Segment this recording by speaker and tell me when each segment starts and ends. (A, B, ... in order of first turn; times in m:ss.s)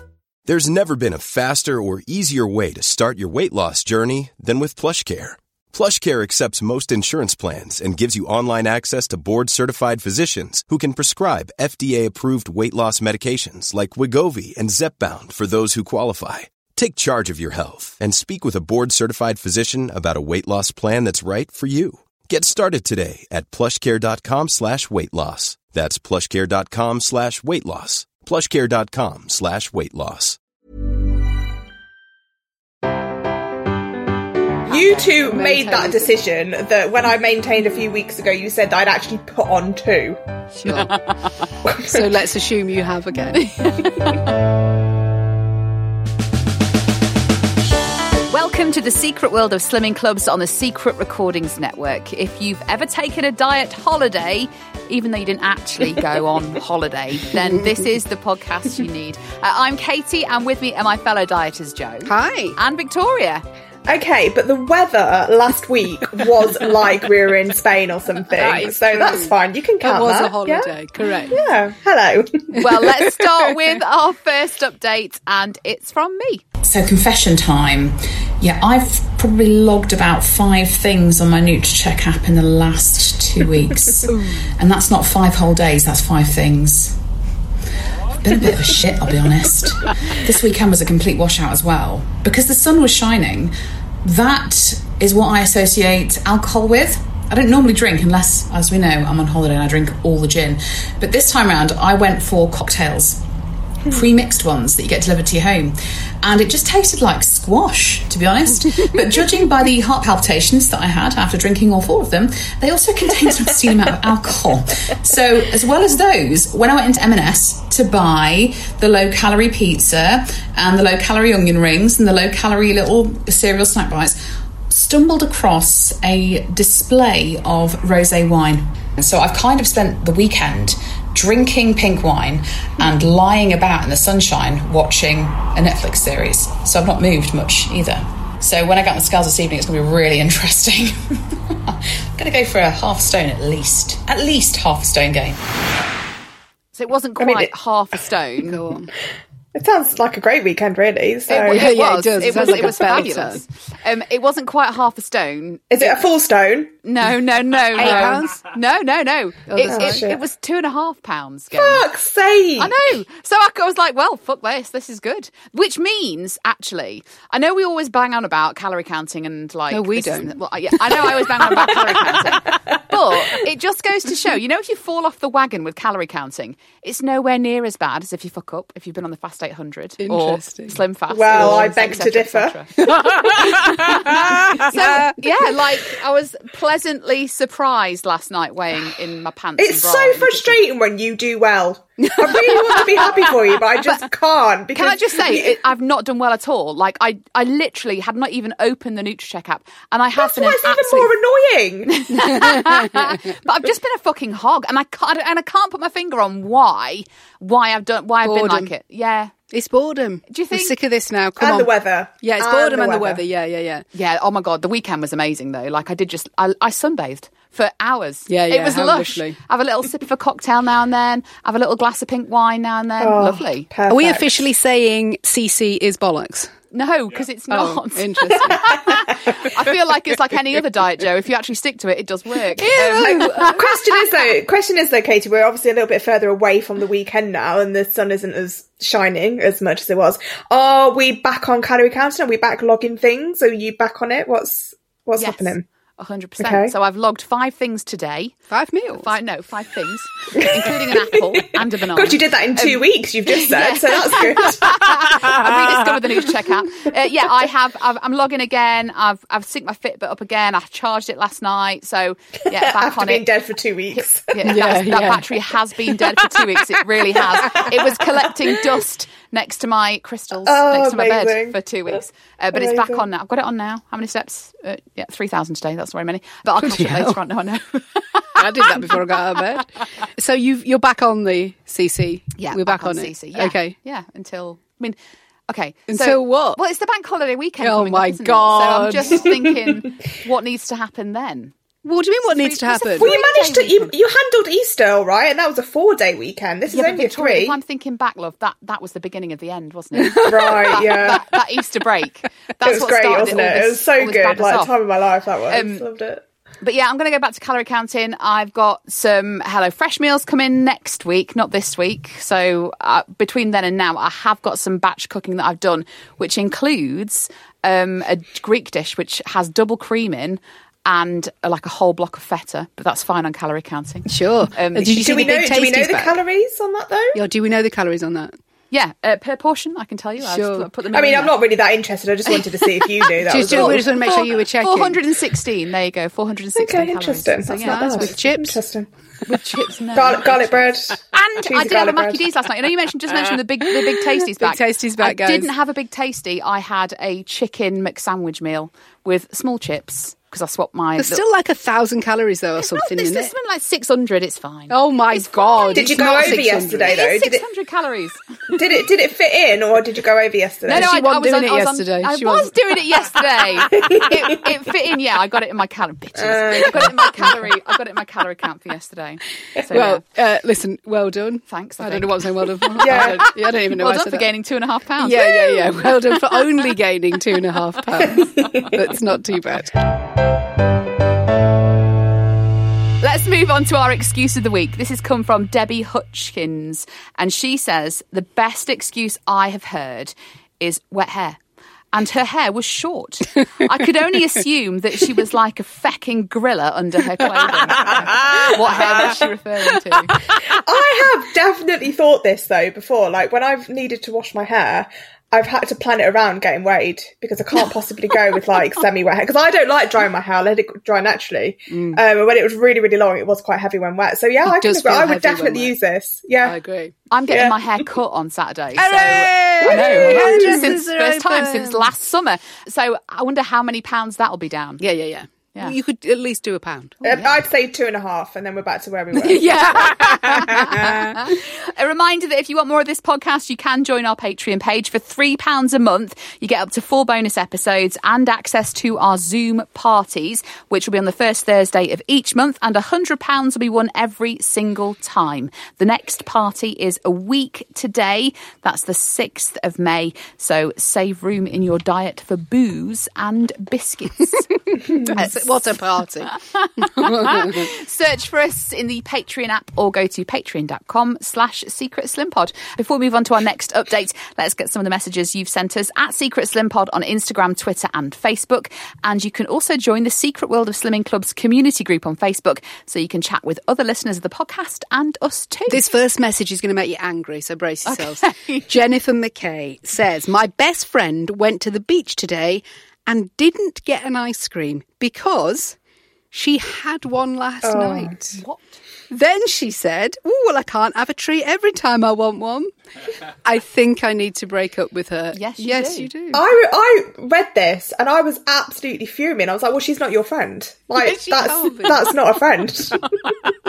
0:00.5-0:30.4 A
0:34.7-0:35.4 B
0:34.7-0:40.2 C
0:35.2-0:36.1 D
0:40.6-0:41.0 D
0:40.7-0:41.2 B
0:41.6-0:42.0 C
0:41.8-0:44.0 D
0:48.3-1:03.4 B
0:57.4-0:57.8 D
1:02.0-1:02.6 D
1:03.9-1:10.7 C
1:08.4-1:11.4 D
1:11.3-1:12.7 C
1:12.6-1:16.4 B
1:16.6-1:27.0 E
1:28.2-1:43.2 E
1:43.9-2:04.2 E
2:04.7-2:25.4 E
2:26.8-2:28.6 B
2:27.2-2:27.5 C
2:28.4-2:28.9 D
2:29.6-2:31.8 C
2:31.3-2:33.4 D
2:31.4-2:36.0 B
2:32.4-2:32.8 C
2:35.7-2:36.7 C
2:36.8-2:41.9 B
2:37.8-2:38.5 D
2:37.8-2:38.2 C
2:39.5-2:40.0 D
2:39.7-2:40.2 C
2:41.5-2:42.8 C
2:42.6-3:10.6 B
2:49.7-2:50.4 D
2:51.4-2:52.4 C
3:00.0-3:00.8 D
3:01.1-3:02.6 C
3:01.3-3:01.7 D
3:02.8-3:05.2 D
3:09.6-3:15.6 C
3:12.5-3:13.3 B
3:14.7-3:21.1 B
3:20.2-3:22.3 C
3:21.9-3:29.3 B
3:22.2-3:23.1 D
3:28.2-3:28.7 D
3:29.5-3:33.9 D
3:30.3-3:30.8 B
3:31.4-3:33.2 C
3:34.0-3:43.7 B
3:38.3-3:39.4 D
3:43.0-3:44.5 C
3:43.9-3:46.5 D
3:46.7-3:53.7 B
3:47.5-3:48.8 D
3:48.6-3:49.0 C
3:52.6-3:53.4 D
3:53.0-4:05.6 C
4:05.2-4:23.3 B
4:06.4-4:06.7 C
4:08.5-4:09.1 D
4:10.4-4:11.1 C
4:11.9-4:15.2 C
4:22.5-4:24.4 C
4:23.9-4:39.0 B
4:24.4-4:25.3 D
4:27.4-4:28.0 C
4:30.5-4:32.0 C
4:32.5-4:33.0 C
4:36.6-4:37.2 D
4:38.4-4:43.8 D
4:42.4-4:45.0 B
4:45.5-4:51.5 B
4:45.9-4:46.6 D
4:47.6-4:49.3 D
4:51.8-4:53.1 D
4:52.2-4:53.9 B
4:53.0-4:57.6 C
4:56.7-5:04.8 B
5:00.0-5:01.2 C
5:02.6-5:06.2 C
5:05.5-5:05.9 B
5:06.6-5:24.9 B
5:24.1-5:26.2 D
5:24.9-5:27.2 C
5:27.2-5:28.4 D
5:28.7-5:31.4 B
5:30.2-5:30.7 D
5:30.9-5:33.9 C
5:33.2-5:35.0 D
5:33.4-5:38.2 B
5:36.6-5:38.9 C
5:37.6-5:38.6 D
5:39.3-5:51.2 B
5:39.9-5:42.3 C
5:44.3-5:45.5 D
5:51.0-5:53.3 D
5:52.6-5:58.8 B
5:54.7-5:56.9 D
5:55.8-5:57.4 C
5:58.6-6:00.9 C
6:00.7-6:10.0 B
6:00.7-6:02.6 D
6:03.7-6:04.2 C
6:06.2-6:07.4 C
6:09.7-6:14.3 D
6:11.5-6:16.4 B
6:12.8-6:13.3 C
6:15.0-6:19.8 D
6:18.4-6:18.7 C
6:23.0-6:31.4 B
6:31.9-6:40.2 B
6:38.2-6:38.5 D
6:38.3-6:39.2 C
6:40.5-6:56.6 C
6:51.7-6:52.0 D
6:54.4-6:55.8 D
6:56.4-6:56.9 D
6:57.1-7:04.8 B
6:57.3-6:57.8 C
6:58.8-7:01.9 D
6:59.6-7:00.8 C
7:04.8-7:07.0 D
7:07.0-7:07.4 B
7:07.0-7:09.8 C
7:09.2-7:11.3 D
7:09.8-7:35.5 B
7:34.7-7:37.7 D
7:36.3-7:55.8 B
7:55.7-8:05.8 D
7:57.9-7:58.7 B
8:06.3-8:08.2 D
8:07.6-8:08.4 C
8:08.4-8:08.8 B
8:09.1-8:12.7 D
8:13.4-8:16.4 D
8:15.3-8:16.1 B
8:16.3-8:23.3 C
8:21.0-8:22.1 D